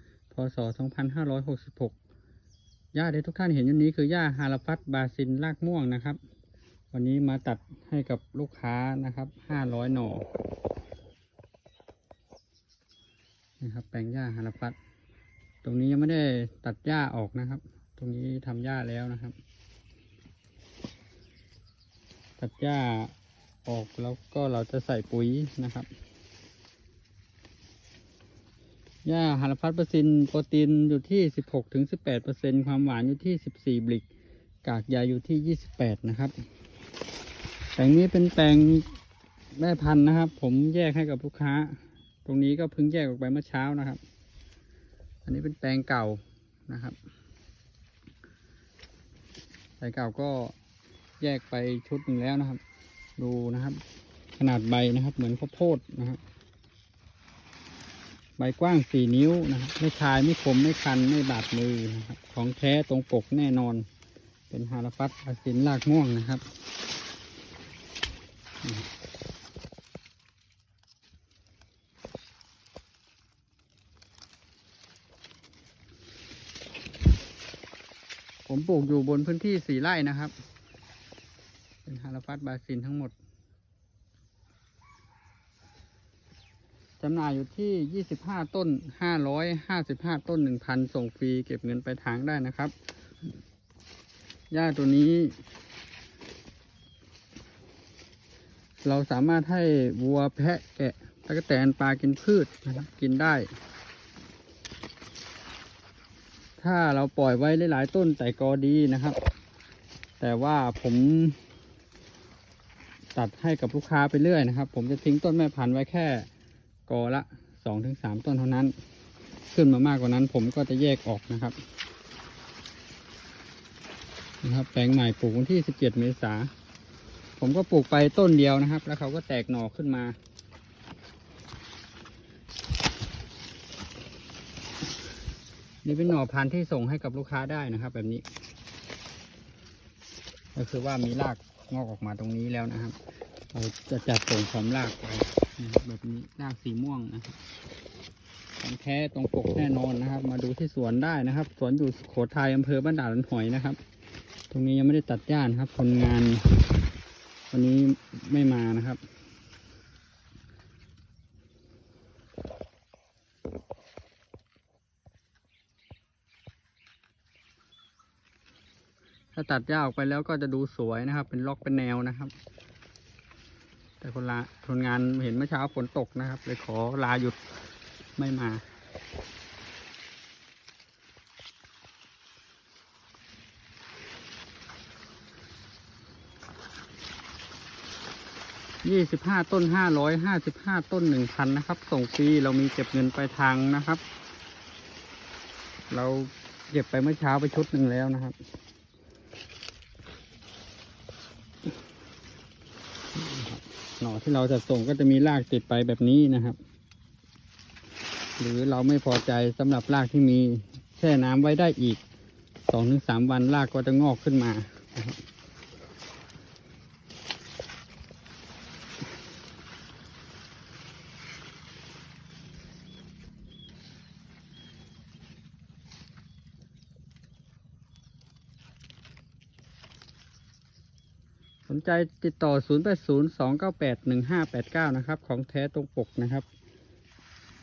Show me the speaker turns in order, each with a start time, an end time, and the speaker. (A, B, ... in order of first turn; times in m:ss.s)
0:00.3-0:01.9 A
0:02.9-0:06.2 A
0:06.9-0:10.3 A
0:13.6-0:14.8 A
0:15.6-0:19.4 A
0:22.4-0:23.1 A
0:23.6-0:25.9 A
0:29.0-0:34.0 A
0:34.6-0:36.4 A
0:37.8-0:38.9 A
0:39.5-0:44.0 A
0:45.2-0:47.0 A
0:49.8-0:50.5 A
0:51.2-0:52.6 A
0:53.2-0:53.8 A
0:54.4-0:56.2 A
0:58.4-1:03.8 A
1:04.5-1:06.4 A
1:18.5-1:20.3 A
1:21.8-1:23.1 A
1:27.0-1:32.7 A
1:34.5-1:35.4 A
1:38.8-1:43.5 A
1:46.6-1:49.2 A
1:50.2-1:51.4 A
1:53.2-1:56.3 A
1:56.9-1:58.7 A
1:59.5-2:01.6 A
2:04.4-2:06.5 A
2:07.4-2:10.2 A
2:15.8-2:18.2 A
2:20.5-2:23.0 A
2:23.5-2:27.4 A
2:28.6-2:33.8 A
2:34.5-2:36.4 A
2:37.5-2:39.0 A
2:49.3-2:52.3 A
2:54.0-2:57.4 A
2:58.2-2:58.6 A
3:08.8-3:14.0 A
3:15.9-3:18.4 A
3:23.1-3:26.6 A
3:28.4-3:32.0 A
3:32.7-3:35.2 A
3:51.7-3:56.4 A